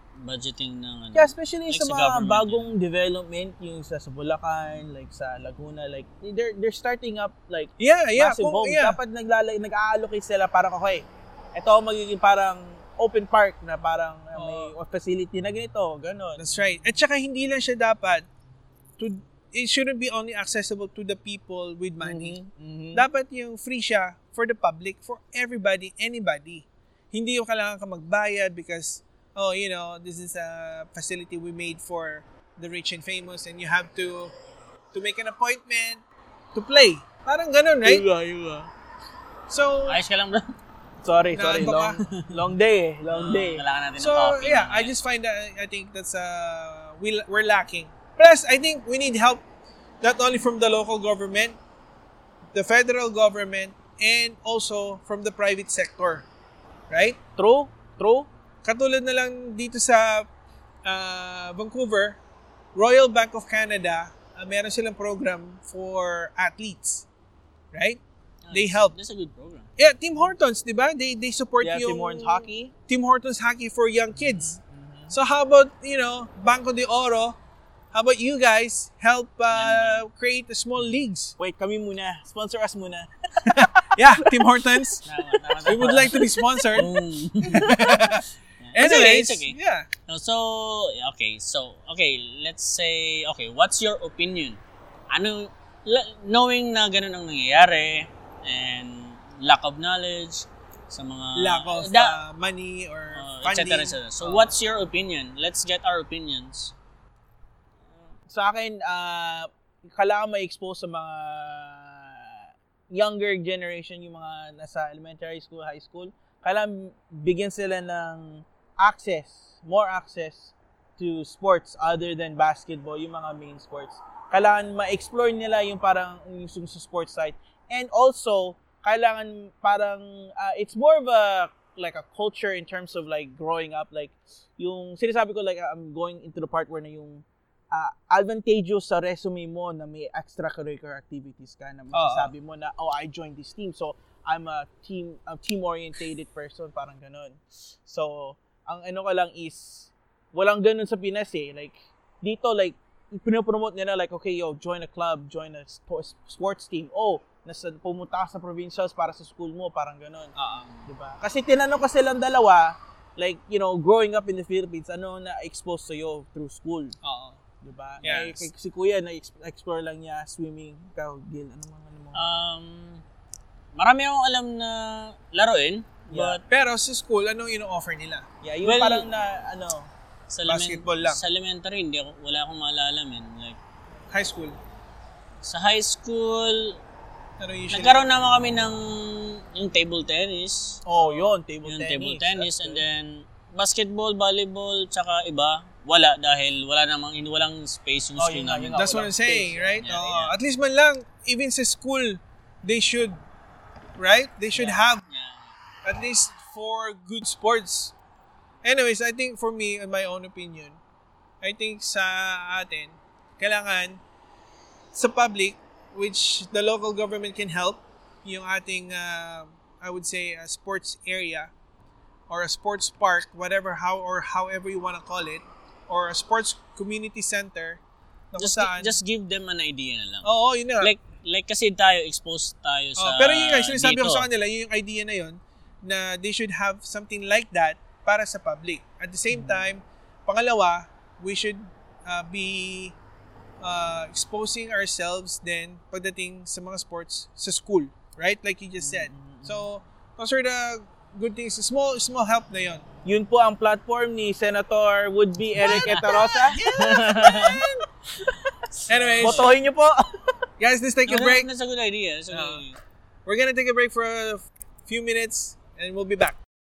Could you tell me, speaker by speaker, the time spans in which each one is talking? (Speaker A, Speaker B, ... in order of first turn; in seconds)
Speaker A: 0.2-2.7, 39.9-40.5, 43.1-44.9, 68.4-69.7, 79.5-80.0, 85.0-94.6, 95.1-102.2, 103.1-106.7, 107.8-108.1, 172.1-173.0, 173.8-176.4, 178.6-179.1, 180.3-183.6, 185.4-186.8, 187.7-198.8, 199.8-200.3, 204.5-205.6, 228.4-234.3, 255.6-257.7, 258.8-259.6, 261.1-262.8
Speaker B: 1.1-16.4, 22.0-23.0, 37.8-38.7, 41.0-43.6, 57.4-58.3, 71.6-72.7, 74.1-75.1, 81.4-84.9, 85.7-86.8, 108.3-166.9, 167.6-172.2, 176.1-176.4, 178.4-179.9, 190.8-192.8, 198.2-199.8, 239.3-239.6, 248.8-249.7, 253.0-256.6, 259.2-260.1
Speaker C: 7.8-9.0, 14.3-14.7, 16.4-18.2, 19.0-22.4, 22.9-34.3, 34.9-36.0, 36.5-38.0, 39.5-40.0, 41.3-42.0, 44.0-49.4, 50.0-51.6, 52.5-56.2, 56.9-57.2, 58.6-60.3, 60.8-62.2, 62.7-67.1, 67.7-68.0, 68.5-68.9, 69.8-74.6, 75.1-77.4, 77.9-81.3, 83.4-85.0, 85.6-86.9, 87.5-89.9, 101.3-104.5, 141.9-142.3, 160.3-160.8, 167.0-167.4, 168.0-168.5, 176.5-178.2, 180.4-181.2, 184.1-184.6, 187.4-188.1, 198.7-203.2, 204.0-205.0, 205.8-207.9, 208.6-210.8, 211.4-214.0, 214.9-221.5, 222.3-229.0, 230.2-230.9, 233.0-242.9, 243.6-252.8, 255.6-257.8, 258.9-259.6, 260.6-261.5, 262.3-262.6, 263.2-266.4